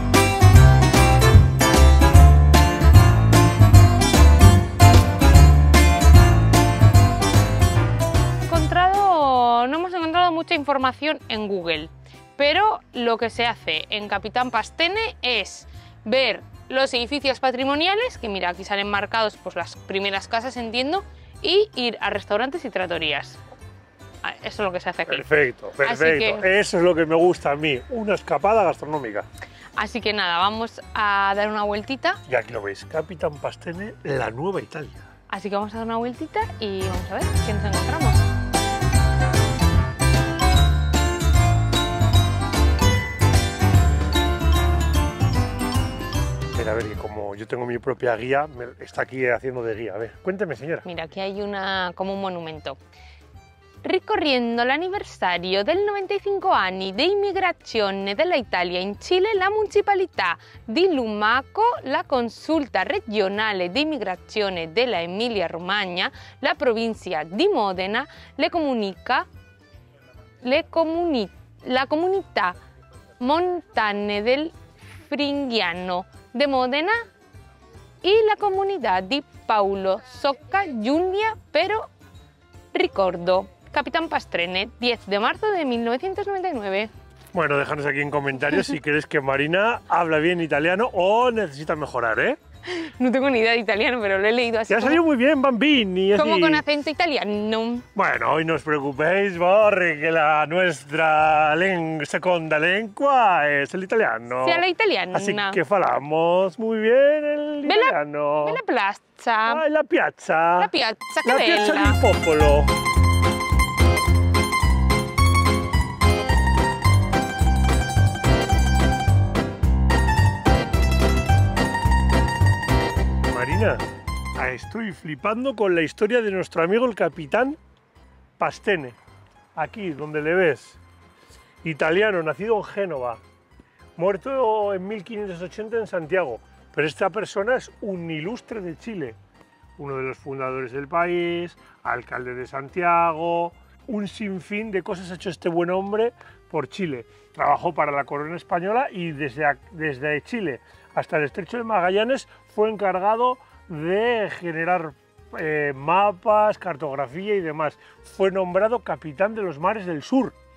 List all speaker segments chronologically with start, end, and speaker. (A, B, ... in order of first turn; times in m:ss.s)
0:08.5-0:23.4 A
0:24.2-0:25.3 A
0:25.1-0:29.3 B
0:25.8-0:26.5 A
0:29.8-0:32.2 A
0:32.3-0:35.1 B
0:35.3-0:38.2 A
0:46.5-0:50.9 B
0:50.8-0:52.8 A
0:53.8-1:09.3 A
1:10.4-1:12.6 A
1:13.2-1:17.0 A
1:18.0-1:21.9 A
1:22.7-1:26.9 A
1:27.3-1:32.4 B
1:32.6-1:35.0 A
1:34.7-1:36.6 B
1:36.2-1:37.9 A
1:38.0-1:48.6 B
1:44.4-1:45.6 A
1:47.6-1:49.6 A
1:49.5-1:50.7 B
1:50.6-1:52.0 A
1:51.2-1:52.7 B
2:03.2-2:07.6 B
2:08.4-2:09.0 B
2:09.6-2:10.8 B
2:11.6-2:13.2 B
2:14.0-2:19.2 B
2:19.8-2:40.4 B